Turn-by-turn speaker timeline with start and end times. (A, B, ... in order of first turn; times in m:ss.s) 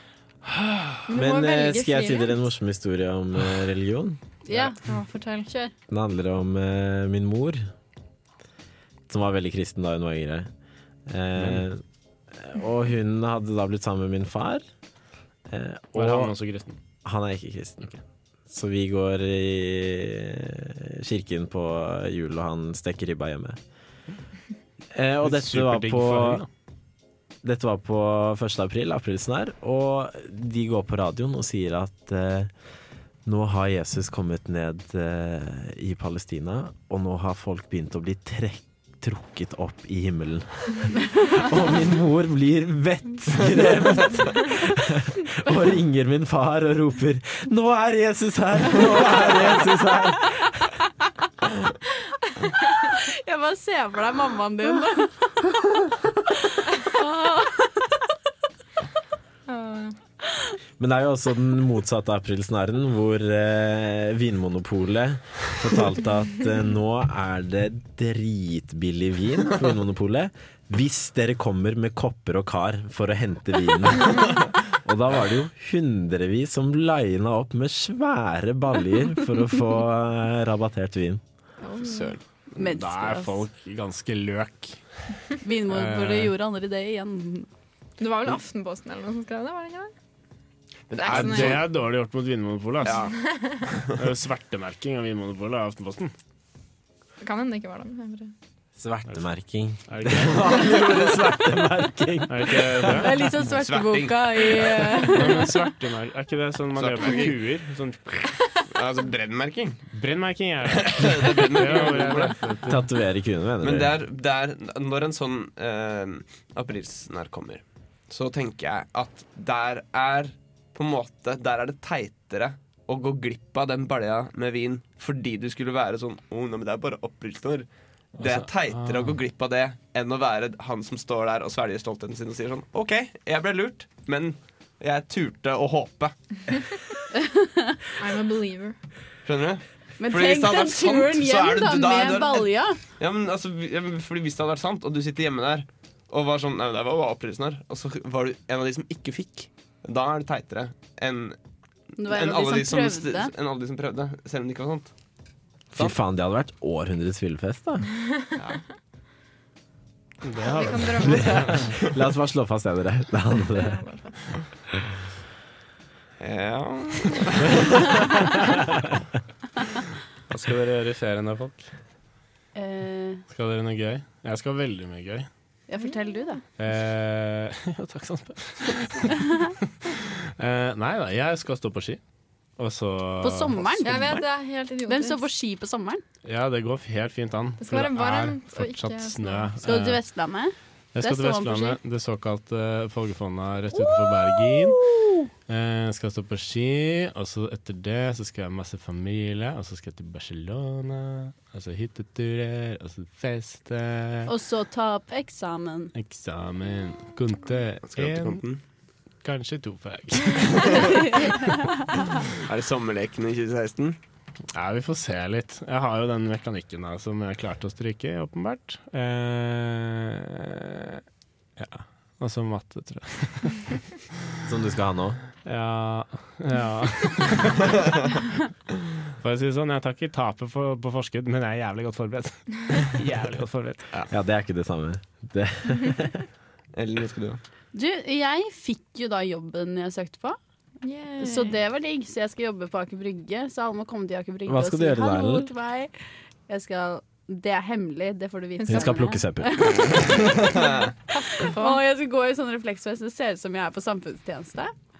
0:01.1-0:02.4 A
0:01.1-0:04.2 B
0:04.4-0:05.0 C
0:04.8-0:05.5 A
0:05.9-0:07.6 B
0:09.1-0:10.5 B
0:11.1-0:14.6 B
0:11.4-0:11.6 D
0:15.5-0:16.3 B
0:15.9-0:16.8 D
0:17.0-0:17.9 B
0:18.5-0:23.6 B
0:24.9-0:26.4 B
0:25.2-0:26.5 D
0:27.4-0:32.5 B
0:33.2-0:50.7 B
0:52.8-0:55.5 C
0:56.8-0:57.9 C
0:59.5-1:00.0 A
1:00.8-1:21.2 B
1:21.6-1:22.2 A
1:21.8-1:22.2 E
1:22.6-1:24.8 D
1:22.6-1:23.4 C
1:25.4-1:27.5 C
1:25.7-1:26.3 D
1:28.0-1:29.9 A
1:30.9-1:31.6 E
1:31.0-1:31.6 A
1:31.1-1:33.1 D
1:32.8-1:34.0 E
1:32.9-1:33.7 A
1:34.0-1:36.1 D
1:37.2-1:38.3 A
1:38.8-1:43.2 B
1:39.9-1:40.5 D
1:42.3-1:43.1 D
1:42.9-1:45.6 C
1:43.4-1:45.1 E
1:45.0-1:48.2 D
1:46.7-1:47.4 E
1:48.5-1:49.9 E
1:49.9-1:52.8 D
1:50.8-1:52.5 E
1:52.7-1:54.0 B
1:53.6-2:07.7 E
2:08.2-2:16.2 E
2:08.2-2:09.2 D
2:17.2-2:17.8 C
2:18.0-2:18.8 A
2:19.2-2:31.4 E
2:20.0-2:22.8 C
2:32.0-2:33.3 C
2:32.0-2:34.9 E
2:35.7-2:37.9 B
2:40.2-2:41.3 D
2:40.4-2:41.7 A
2:40.8-2:43.8 B
2:41.6-2:42.0 E
2:43.5-2:44.2 A
2:46.2-2:48.0 E
2:48.2-2:48.8 D
2:50.3-2:51.7 D
2:52.5-2:53.2 C
2:53.3-2:55.3 D
2:55.7-2:56.4 C
2:56.6-3:02.0 D
3:02.6-3:04.1 D
3:03.2-3:04.2 C
3:03.8-3:05.2 A
3:04.9-3:06.0 C
3:06.2-3:10.0 D
3:07.6-3:09.5 A
3:09.6-3:11.8 C
3:10.9-3:14.8 D
3:13.7-3:15.3 C
3:15.5-3:24.3 D
3:24.3-3:25.9 C
3:25.9-3:28.4 D
3:27.9-3:28.6 E
3:29.2-3:31.6 D
3:30.5-3:31.0 E
3:30.9-3:31.7 C
3:32.3-3:34.0 E
3:34.5-3:41.0 D
3:41.6-3:43.8 D
3:44.4-3:45.2 B
3:45.4-3:47.7 D
3:49.2-3:53.9 D
3:54.1-3:56.2 B
3:56.7-3:57.4 E
3:57.7-4:00.4 C
4:00.8-4:01.6 A
4:01.2-4:05.9 C
4:04.5-4:05.5 B
4:06.5-4:10.6 C
4:08.6-4:09.1 A
4:08.7-4:10.0 B
4:10.1-4:10.9 E
4:10.4-4:11.8 A
4:11.4-4:14.7 C